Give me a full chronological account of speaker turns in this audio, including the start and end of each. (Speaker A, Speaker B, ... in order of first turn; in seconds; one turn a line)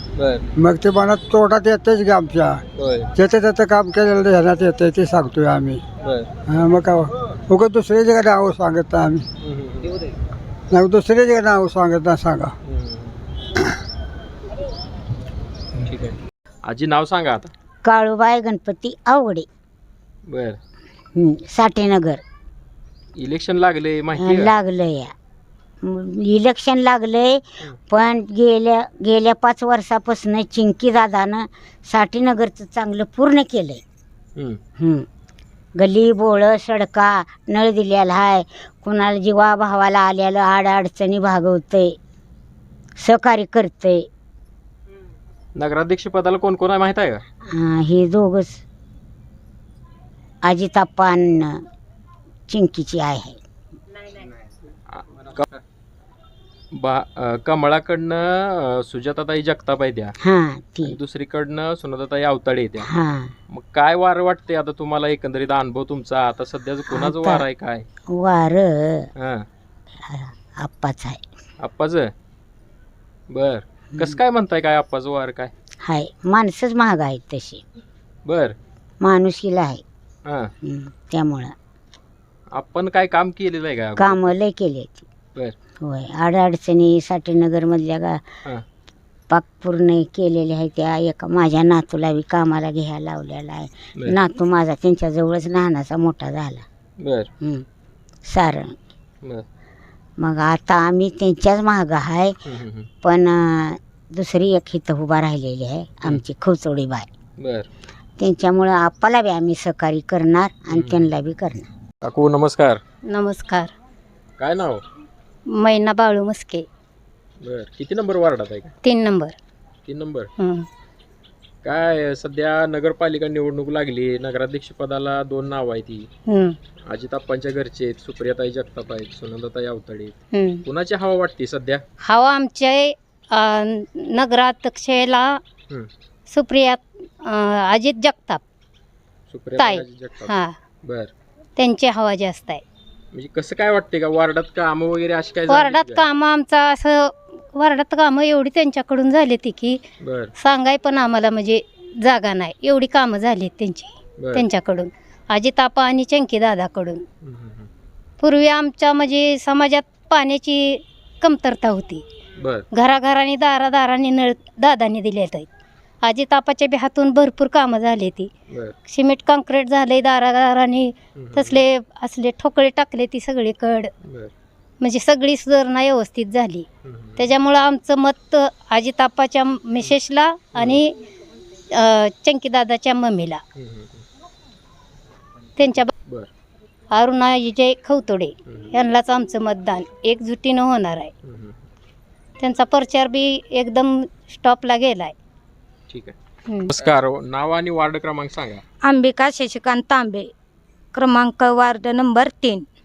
Speaker A: 0.2-0.5
Speaker B: 0.6-2.6
Speaker A: 2.8-3.1
Speaker B: 3.1-5.8
Speaker A: 6.0-6.3
Speaker B: 6.5-9.3
Speaker A: 9.4-10.1
Speaker B: 10.7-12.5
Speaker A: 12.7-13.2
Speaker A: 15.8-17.5
Speaker C: 17.8-19.5
Speaker A: 20.3-20.6
Speaker C: 21.1-22.2
Speaker A: 23.2-24.5
Speaker C: 24.2-25.1
Speaker C: 25.8-33.8
Speaker C: 34.8-35.1
Speaker C: 35.8-42.0
Speaker C: 43.0-44.1
Speaker A: 45.5-47.2
Speaker C: 47.5-48.6
Speaker C: 50.4-51.6
Speaker C: 52.5-53.4
Speaker A: 54.9-55.5
Speaker A: 56.7-60.1
Speaker C: 60.2-61.0
Speaker A: 60.8-62.9
Speaker C: 62.8-63.3
Speaker A: 63.5-67.8
Speaker C: 66.9-67.5
Speaker C: 68.1-69.1
Speaker A: 69.2-69.5
Speaker C: 70.1-71.2
Speaker A: 71.6-72.1
Speaker A: 73.3-75.5
Speaker C: 75.8-77.6
Speaker A: 78.3-78.6
Speaker C: 79.0-79.8
Speaker A: 80.3-80.5
Speaker C: 80.6-81.5
Speaker A: 82.5-84.4
Speaker C: 84.0-85.0
Speaker C: 85.8-88.2
Speaker C: 89.3-96.7
Speaker A: 97.0-97.3
Speaker C: 98.3-98.7
Speaker C: 100.2-102.3
Speaker A: 102.5-102.9
Speaker C: 103.0-107.1
Speaker A: 107.4-107.7
Speaker C: 108.2-111.7
Speaker A: 110.7-111.0
Speaker A: 112.0-112.8
Speaker D: 113.1-113.7
Speaker A: 114.4-114.8
Speaker D: 115.5-116.7
Speaker A: 117.4-118.8
Speaker D: 118.8-119.3
Speaker A: 119.9-120.3
Speaker D: 120.4-120.7
Speaker A: 121.6-126.1
Speaker D: 126.3-126.6
Speaker A: 126.9-131.8
Speaker D: 130.3-130.7
Speaker D: 132.0-135.4
Speaker D: 136.3-138.4
Speaker A: 139.3-140.3
Speaker D: 139.6-140.5
Speaker A: 140.8-141.1
Speaker D: 141.6-142.6
Speaker A: 143.1-146.1
Speaker D: 145.5-149.8
Speaker A: 150.0-150.3
Speaker D: 150.4-157.0
Speaker A: 154.2-154.4
Speaker A: 157.2-157.7
Speaker D: 158.2-162.0
Speaker A: 162.4-162.7
Speaker D: 162.7-165.5
Speaker D: 166.0-168.3
Speaker D: 168.9-173.9
Speaker A: 171.2-171.6
Speaker A: 174.1-174.3
Speaker D: 174.8-176.7
Speaker A: 176.8-177.3
Speaker D: 177.2-180.9
Speaker A: 180.6-180.8
Speaker D: 181.8-183.4
Speaker A: 183.6-184.0
Speaker D: 185.6-185.9
Speaker D: 186.9-191.1
Speaker A: 191.2-191.6
Speaker D: 192.4-195.1
Speaker A: 195.9-196.1
Speaker A: 196.7-198.6
Speaker E: 198.8-200.3
Speaker E: 200.9-202.6